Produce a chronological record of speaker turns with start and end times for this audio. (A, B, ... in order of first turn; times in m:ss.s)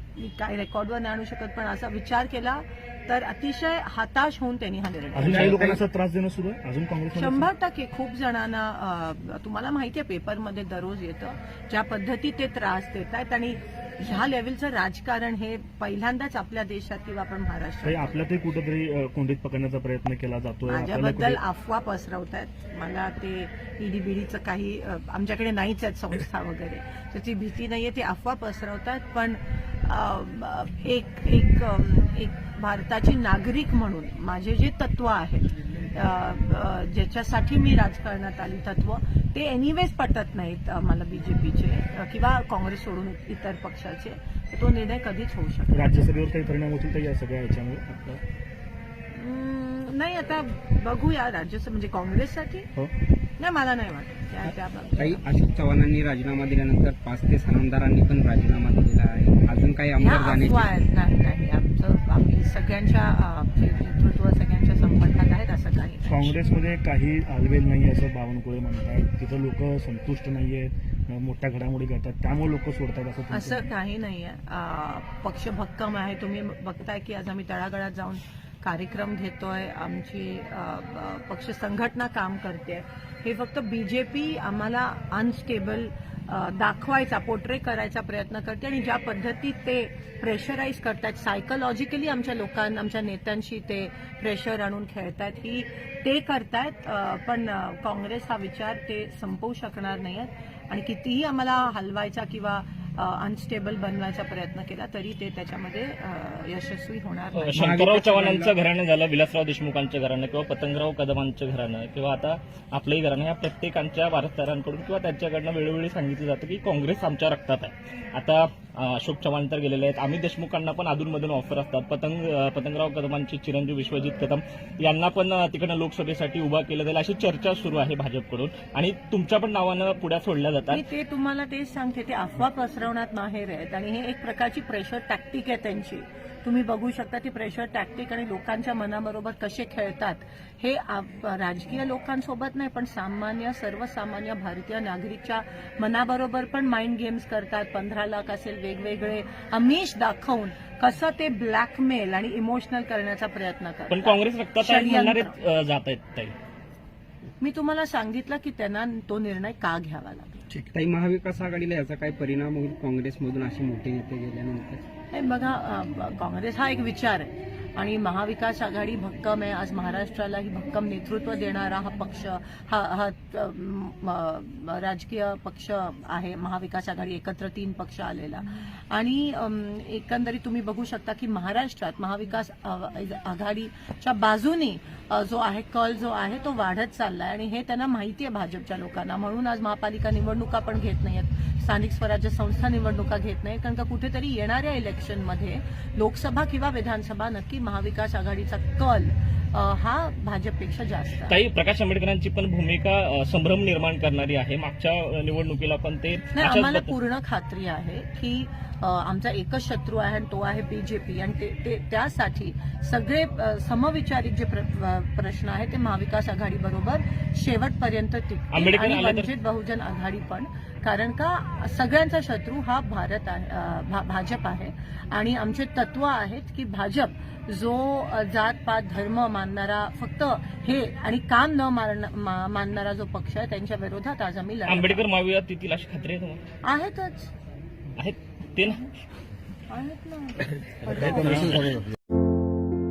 0:00.1-0:05.7 A
0:05.1-0:07.5 B
0:05.2-0:05.8 C
0:07.1-0:18.2 A
0:17.8-0:21.4 B
0:20.7-0:45.7 A
0:45.7-0:48.2 B
0:49.1-0:52.7 A
0:53.4-0:55.2 A
0:55.0-1:00.7 C
1:00.0-1:06.3 A
1:06.1-1:13.7 B
1:13.3-1:47.7 A
1:47.3-2:10.8 D
1:47.5-1:48.5 C
2:10.7-2:35.3 A
2:33.9-2:36.3 D
2:37.4-2:40.5 A
2:40.7-2:44.8 C
2:45.1-3:21.4 A
3:21.3-3:26.9 D
3:26.3-3:55.0 A
3:38.5-3:39.3 D
3:54.7-3:56.4 D
3:56.6-3:57.3 A
3:58.0-3:58.9 D
3:59.7-4:01.7 A
4:01.2-4:01.6 B